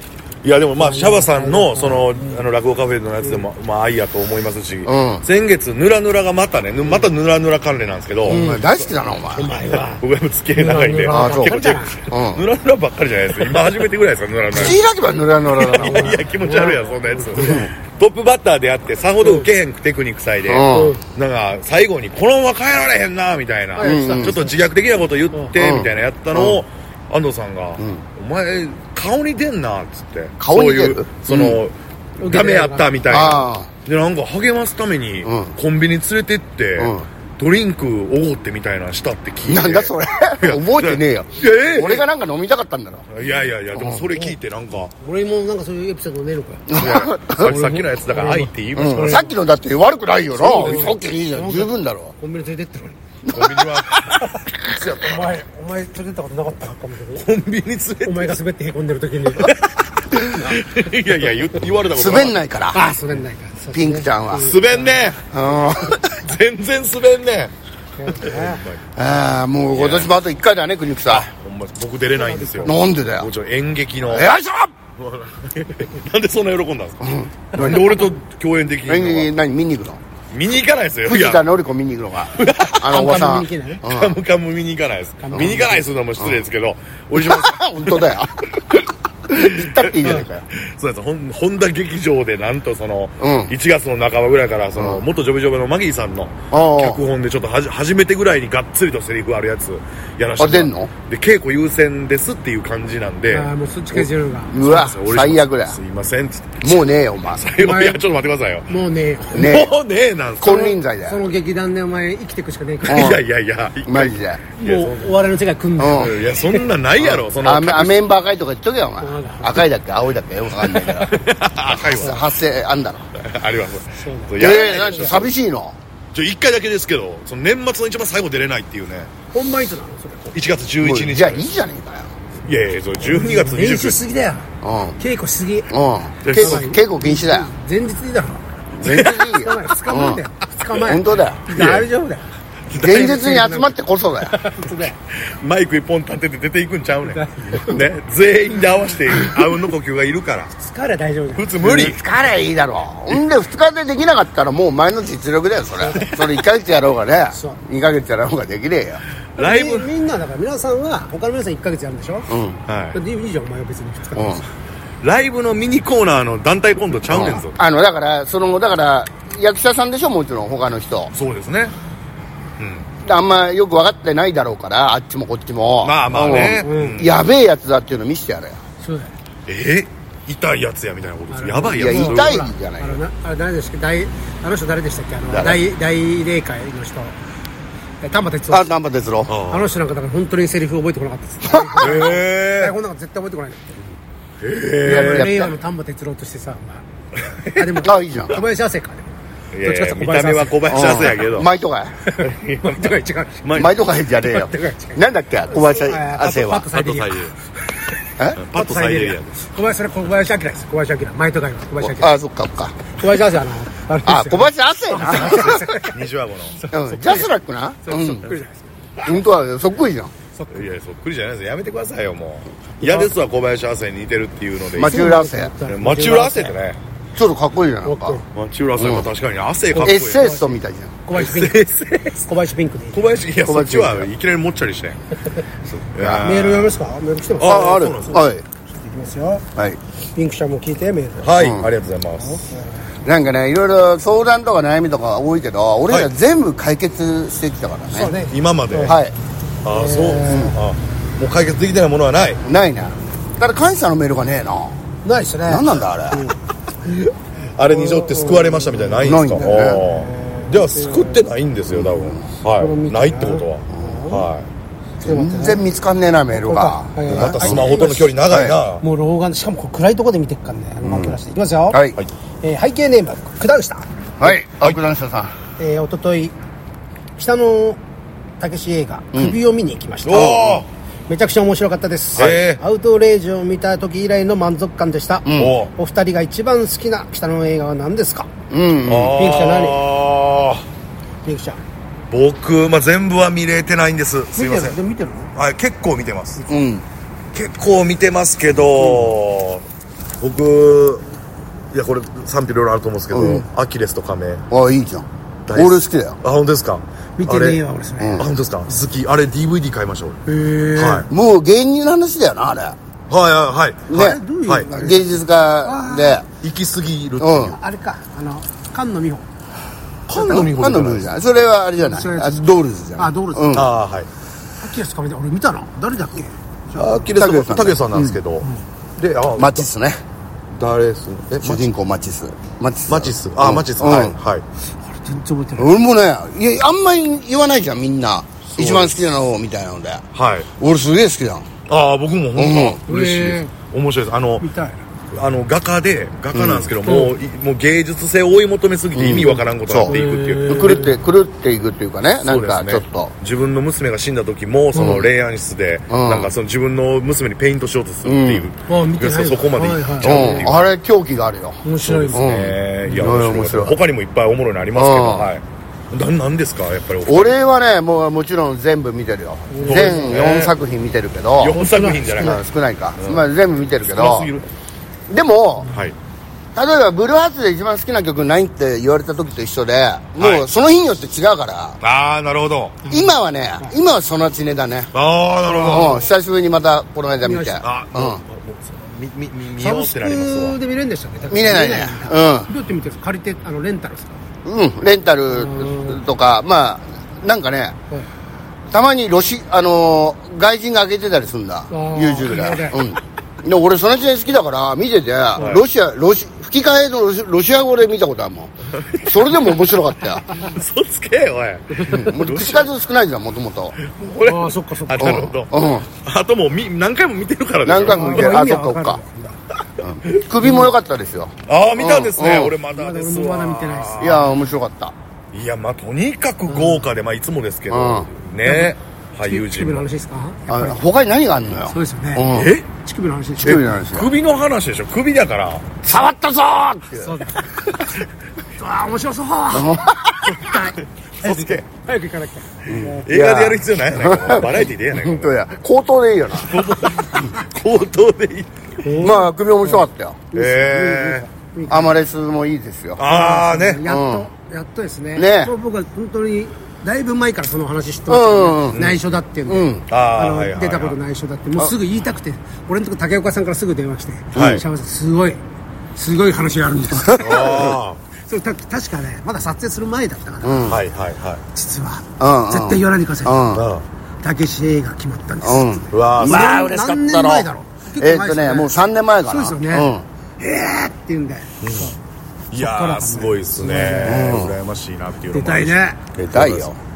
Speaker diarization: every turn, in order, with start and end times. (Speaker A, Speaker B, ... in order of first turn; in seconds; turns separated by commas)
Speaker A: 0.4-8.4, Speaker B: 0.8-2.4, Speaker C: 4.9-5.2, Speaker C: 8.2-9.5, Speaker B: 8.3-8.7, Speaker B: 9.3-10.0, Speaker A: 9.7-14.8, Speaker B: 10.6-12.0, Speaker C: 11.1-12.4, Speaker C: 14.5-16.2, Speaker A: 15.6-42.0, Speaker B: 15.7-17.7, Speaker B: 19.2-19.5, Speaker C: 20.5-20.9, Speaker B: 20.7-21.0, Speaker B: 23.8-24.5, Speaker C: 23.8-24.4, Speaker C: 25.6-26.6, Speaker C: 30.4-31.6, Speaker B: 32.2-33.4, Speaker C: 33.1-33.7, Speaker C: 35.2-35.5, Speaker C: 36.8-37.1, Speaker C: 39.5-43.1, Speaker A: 43.1-44.9, Speaker C: 43.8-44.1, Speaker B: 45.0-49.3, Speaker C: 46.7-47.5, Speaker A: 46.8-49.2, Speaker C: 48.8-52.1, Speaker B: 50.4-53.0, Speaker A: 50.5-50.9, Speaker C: 53.2-53.8, Speaker A: 53.3-55.2, Speaker B: 54.3-57.2, Speaker A: 57.2-58.4, Speaker B: 58.0-59.6, Speaker A: 59.4-62.4, Speaker C: 61.9-62.8, Speaker B: 62.7-65.1, Speaker C: 63.7-64.5, Speaker A: 64.4-67.5, Speaker C: 65.3-66.1, Speaker B: 68.0-68.6, Speaker A: 68.1-68.8, Speaker C: 69.0-71.3, Speaker A: 69.7-70.1, Speaker A: 71.1-74.3, Speaker B: 72.1-72.8, Speaker C: 72.6-73.3, Speaker C: 74.0-74.7, Speaker A: 75.0-77.0, Speaker C: 77.0-77.8, Speaker A: 77.5-79.3, Speaker C: 78.9-80.0, Speaker A: 80.3-81.5, Speaker C: 81.1-84.2, Speaker A: 82.4-82.9, Speaker B: 82.8-83.8, Speaker A: 83.8-88.1, Speaker B: 85.2-85.9, Speaker C: 85.3-85.6, Speaker C: 87.1-88.8, Speaker C: 89.3-90.5, Speaker A: 89.5-103.5, Speaker C: 93.2-93.5, Speaker C: 94.8-95.0, Speaker C: 96.5-97.0, Speaker C: 100.4-100.9, Speaker B: 103.3-104.6, Speaker C: 104.5-105.8, Speaker A: 104.6-106.7, Speaker C: 106.6-107.4, Speaker A: 107.4-108.7, Speaker B: 107.6-108.0, Speaker B: 108.7-109.6, Speaker C: 109.3-109.8, Speaker A: 109.3-110.7, Speaker C: 110.4-111.2, Speaker B: 110.5-113.2, Speaker A: 112.8-115.1, Speaker C: 112.9-113.2, Speaker C: 113.9-114.4, Speaker B: 114.6-116.7, Speaker C: 115.8-116.1, Speaker A: 115.9-118.0, Speaker C: 117.0-121.1, Speaker B: 119.0-119.6, Speaker B: 120.8-121.2, Speaker A: 121.1-122.2, Speaker C: 121.7-123.1, Speaker A: 123.2-125.3, Speaker B: 124.0-125.2, Speaker C: 124.4-125.8, Speaker A: 126.1-129.1, Speaker B: 129.3-130.3, Speaker A: 130.3-131.5, Speaker C: 130.8-132.1, Speaker A: 132.4-134.0, Speaker B: 133.0-135.7, Speaker C: 134.6-135.0, Speaker C: 135.7-137.5, Speaker A: 136.2-136.7, Speaker B: 136.4-145.0, Speaker C: 138.8-140.2, Speaker A: 138.8-139.2, Speaker C: 140.7-141.4, Speaker A: 141.5-141.9, Speaker C: 142.7-144.4, Speaker A: 145.1-150.5, Speaker B: 147.1-147.8, Speaker B: 149.1-149.4, Speaker B: 150.6-151.5, Speaker A: 151.4-152.0, Speaker C: 151.6-159.0, Speaker B: 155.8-156.1, Speaker B: 157.3-157.6, Speaker A: 159.4-159.9, Speaker B: 159.4-162.3, Speaker C: 162.3-162.6, Speaker A: 162.7-163.0, Speaker B: 162.9-164.5, Speaker C: 164.2-164.4, Speaker A: 165.0-167.6, Speaker C: 167.1-171.1, Speaker A: 171.1-171.7, Speaker A: 172.6-172.9, Speaker C: 173.0-178.6, Speaker A: 175.8-177.1, Speaker B: 176.3-177.0, Speaker B: 178.8-179.1, Speaker A: 179.5-182.5, Speaker B: 181.3-187.2, Speaker C: 181.7-183.0, Speaker C: 185.3-185.6, Speaker B: 188.0-188.8, Speaker C: 188.5-189.3, Speaker A: 189.3-189.7, Speaker B: 189.5-193.8, Speaker C: 191.5-191.9, Speaker A: 191.8-192.8, Speaker A: 194.4-195.5, Speaker B: 194.8-199.1, Speaker C: 194.8-195.5, Speaker A: 197.3-197.7, Speaker C: 197.8-198.4, Speaker A: 199.5-201.5, Speaker B: 199.6-201.2, Speaker C: 200.7-202.0, Speaker B: 202.0-203.6, Speaker A: 202.2-203.8, Speaker C: 203.5-206.7, Speaker B: 204.1-207.9, Speaker A: 206.7-207.3, Speaker A: 208.4-209.3, Speaker B: 208.5-212.2, Speaker C: 211.8-212.8, Speaker B: 213.0-216.0, Speaker C: 214.1-215.7, Speaker A: 215.5-216.6, Speaker B: 216.6-217.3, Speaker C: 216.7-218.3, Speaker B: 217.8-219.1, Speaker C: 219.0-220.1, Speaker B: 220.3-220.7, Speaker A: 220.5-225.0, Speaker B: 222.8-223.1, Speaker C: 224.8-225.5, Speaker B: 224.8-226.6, Speaker A: 225.7-226.8, Speaker C: 227.1-228.2, Speaker B: 227.8-228.2, Speaker A: 228.3-230.3, Speaker C: 228.8-229.1, Speaker B: 229.7-230.5, Speaker C: 229.8-231.0, Speaker B: 231.1-233.1, Speaker A: 231.1-232.2, Speaker A: 232.9-235.0, Speaker C: 233.4-234.1, Speaker A: 235.7-236.8, Speaker B: 236.1-239.4, Speaker A: 237.4-238.2, Speaker C: 237.4-238.4, Speaker B: 240.2-241.4, Speaker A: 241.2-242.4, Speaker C: 241.3-241.7, Speaker B: 242.2-242.7, Speaker C: 243.1-248.1, Speaker B: 247.9-249.0, Speaker A: 248.3-249.0, Speaker C: 248.8-249.1, Speaker A: 249.6-252.4, Speaker B: 249.7-250.6, Speaker C: 252.4-254.8, Speaker B: 255.1-256.4, Speaker C: 255.5-256.3, Speaker A: 256.9-264.5, Speaker B: 257.6-261.2, Speaker C: 259.0-259.8, Speaker C: 261.7-262.2, Speaker B: 262.6-264.3, Speaker C: 263.7-264.1, Speaker B: 265.0-265.6, Speaker C: 265.0-267.7, Speaker B: 266.3-268.1, Speaker A: 267.1-268.8, Speaker C: 268.3-268.6, Speaker B: 268.8-271.8, Speaker C: 270.8-271.2, Speaker C: 271.7-272.0, Speaker B: 272.4-273.9, Speaker C: 274.2-275.3, Speaker B: 275.6-276.3, Speaker B: 277.2-277.8, Speaker B: 278.4-280.6, Speaker A: 280.1-280.7, Speaker C: 280.1-280.6, Speaker B: 281.1-288.3, Speaker A: 282.2-282.6, Speaker C: 285.2-285.6, Speaker A: 285.4-285.7, Speaker C: 288.5-289.2, Speaker A: 288.9-290.6, Speaker B: 289.1-289.8, Speaker B: 291.2-291.6, Speaker A: 292.1-294.8, Speaker B: 294.4-295.3, Speaker A: 295.4-296.4, Speaker C: 296.5-296.8, Speaker A: 297.3-299.6, Speaker A: 300.2-301.0, Speaker A: 301.7-304.4, Speaker C: 303.1-303.5, Speaker C: 304.5-306.2, Speaker A: 305.5-307.6, Speaker B: 307.2-308.2, Speaker C: 308.0-308.3, Speaker A: 308.2-310.2, Speaker B: 310.2-311.1, Speaker A: 310.8-311.1, Speaker C: 311.1-312.8, Speaker A: 313.1-313.9, Speaker C: 313.9-314.2, Speaker B: 313.9-316.2, Speaker A: 314.4-314.7, Speaker C: 314.7-316.3, Speaker A: 316.4-317.6, Speaker C: 317.2-317.6, Speaker B: 317.5-319.2, Speaker A: 320.1-321.1, Speaker C: 320.1-323.7, Speaker B: 321.8-322.4, Speaker B: 323.0-323.6, Speaker A: 323.5-324.1, Speaker B: 324.6-327.0, Speaker A: 326.8-328.5, Speaker C: 327.1-328.2, Speaker A: 329.0-329.7, Speaker C: 329.4-330.0, Speaker A: 330.6-331.7, Speaker C: 331.4-334.2, Speaker A: 332.9-334.4, Speaker B: 334.9-335.7, Speaker C: 335.6-340.1, Speaker A: 338.5-339.0, Speaker A: 340.1-340.5, Speaker C: 340.6-341.5, Speaker A: 341.7-344.4, Speaker C: 342.4-342.8, Speaker B: 342.9-343.5, Speaker B: 344.4-344.8, Speaker A: 345.1-350.8, Speaker C: 346.3-346.7, Speaker B: 346.8-347.1, Speaker C: 348.9-353.1, Speaker B: 349.2-351.0, Speaker A: 352.2-360.7, Speaker B: 354.7-355.0, Speaker C: 354.8-355.1, Speaker C: 355.9-356.3, Speaker C: 358.1-358.5, Speaker B: 358.7-360.5, Speaker C: 360.0-363.8, Speaker B: 361.6-362.4, Speaker A: 361.8-367.4, Speaker C: 364.8-365.3, Speaker C: 367.1-371.6, Speaker B: 369.5-370.3, Speaker A: 369.6-370.5, Speaker A: 371.4-372.4, Speaker B: 371.6-372.4, Speaker C: 372.2-374.3, Speaker A: 373.0-373.2, Speaker A: 373.8-374.4, Speaker C: 375.1-375.7, Speaker A: 375.7-375.9, Speaker C: 376.6-381.8, Speaker A: 380.2-380.5, Speaker A: 381.8-382.8, Speaker B: 382.8-383.7, Speaker C: 382.9-384.9, Speaker A: 384.9-386.1, Speaker B: 385.5-386.1, Speaker C: 385.5-388.2, Speaker B: 387.2-387.6, Speaker A: 387.6-390.6, Speaker B: 389.6-394.2, Speaker C: 391.3-392.5, Speaker C: 394.4-397.8, Speaker B: 395.3-396.0, Speaker C: 398.7-410.2, Speaker B: 401.7-402.8, Speaker A: 405.4-405.6, Speaker A: 408.8-409.1, Speaker A: 410.4-412.7, Speaker B: 411.7-412.1, Speaker C: 411.9-413.8, Speaker A: 413.8-418.4, Speaker B: 414.2-415.3, Speaker C: 415.0-415.9, Speaker C: 417.6-419.0, Speaker B: 417.9-419.4, Speaker C: 419.8-422.6, Speaker A: 421.5-424.3, Speaker B: 422.7-424.4, Speaker C: 424.0-424.9, Speaker A: 425.3-429.9, Speaker B: 426.5-426.9, Speaker C: 427.7-428.1, Speaker B: 428.4-428.7, Speaker B: 429.2-430.9, Speaker C: 430.5-432.5, Speaker B: 431.7-433.6, Speaker A: 432.3-432.6, Speaker C: 433.4-434.1, Speaker A: 433.4-435.9, Speaker C: 435.9-437.2, Speaker B: 436.9-437.6, Speaker B: 438.6-443.1, Speaker C: 439.5-440.3, Speaker A: 441.2-441.6, Speaker C: 442.6-446.6, Speaker A: 443.1-445.3, Speaker A: 446.4-448.5, Speaker B: 448.8-452.0, Speaker C: 449.0-450.3, Speaker A: 450.3-451.2, Speaker C: 451.7-453.0, Speaker A: 453.0-453.9, Speaker B: 453.0-465.4, Speaker C: 453.9-454.3, Speaker C: 455.1-455.5, Speaker C: 458.1-458.8, Speaker A: 458.7-459.0, Speaker C: 459.5-459.9, Speaker A: 459.9-461.0, Speaker C: 464.3-464.6, Speaker A: 464.3-464.6, Speaker B: 465.9-467.7, Speaker C: 467.1-467.8, Speaker A: 467.2-468.0, Speaker B: 468.2-470.7, Speaker C: 470.4-470.8, Speaker A: 470.7-471.4, Speaker B: 471.5-473.5, Speaker C: 472.2-473.6, Speaker A: 473.5-473.8, Speaker B: 474.2-481.9, Speaker C: 475.4-477.5, Speaker A: 475.9-476.6, Speaker C: 478.0-480.1, Speaker A: 481.6-481.9, Speaker A: 482.5-485.8, Speaker B: 482.6-484.3, Speaker C: 484.0-484.6, Speaker B: 485.3-486.0, Speaker C: 486.2-486.8, Speaker A: 486.3-486.7